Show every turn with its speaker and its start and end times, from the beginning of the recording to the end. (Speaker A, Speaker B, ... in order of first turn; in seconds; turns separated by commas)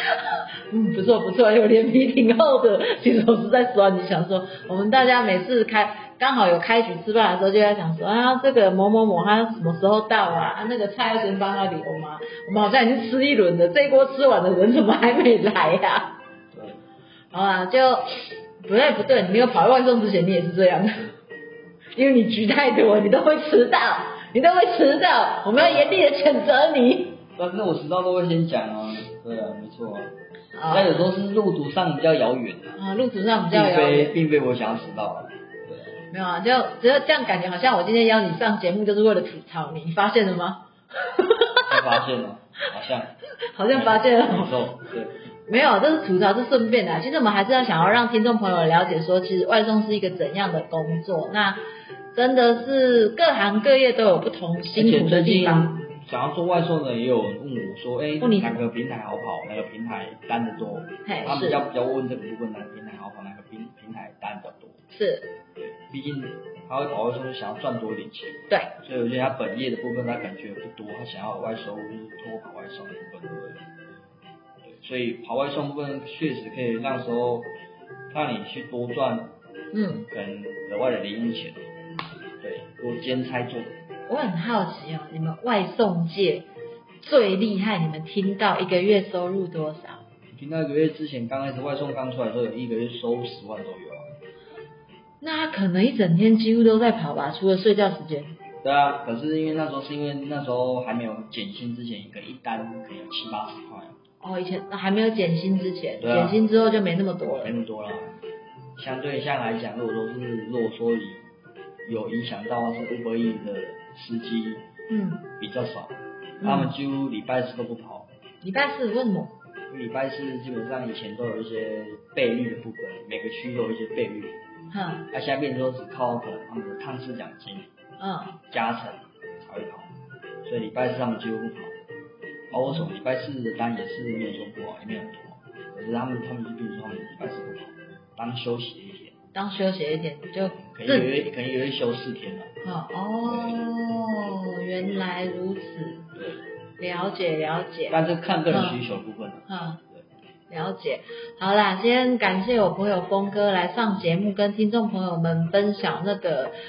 Speaker A: 0.7-16.1, Speaker B: 16.5-16.8, Speaker A: 17.3-21.1, Speaker A: 21.9-27.2, Speaker B: 25.5-26.0, Speaker B: 27.4-30.1, Speaker A: 30.5-31.0, Speaker B: 30.7-32.8, Speaker A: 32.8-34.1, Speaker B: 33.5-36.0, Speaker A: 36.1-42.0, Speaker B: 41.6-43.1, Speaker A: 43.5-44.6, Speaker B: 43.7-45.2, Speaker A: 45.5-51.6, Speaker A: 52.1-55.8, Speaker B: 54.7-64.8, Speaker A: 58.2-58.6, Speaker A: 61.0-61.6, Speaker A: 64.9-65.3, Speaker B: 65.6-73.6, Speaker A: 68.5-68.7, Speaker B: 74.6-77.5, Speaker B: 78.1-79.3, Speaker A: 79.7-80.0, Speaker B: 80.1-81.6, Speaker B: 82.4-83.8, Speaker A: 84.1-86.5, Speaker A: 87.0-90.0, Speaker B: 90.3-94.1, Speaker A: 95.2-98.3, Speaker B: 98.6-104.0, Speaker A: 104.2-107.5, Speaker B: 106.0-106.4, Speaker B: 107.4-108.2, Speaker B: 108.8-111.2, Speaker B: 111.8-114.6, Speaker A: 114.9-115.2, Speaker B: 115.4-118.1, Speaker A: 116.4-116.7, Speaker A: 118.4-119.3, Speaker B: 119.7-124.4, Speaker A: 124.7-125.0, Speaker B: 125.1-127.7, Speaker A: 128.0-128.4, Speaker B: 128.5-129.9, Speaker B: 130.4-131.7, Speaker B: 132.5-139.2, Speaker A: 139.3-141.1, Speaker B: 140.6-142.5, Speaker A: 142.6-146.1, Speaker B: 143.2-143.6, Speaker B: 146.1-146.4, Speaker A: 146.8-148.0, Speaker B: 147.9-150.0, Speaker A: 148.5-148.8, Speaker A: 149.5-149.8, Speaker A: 150.5-156.5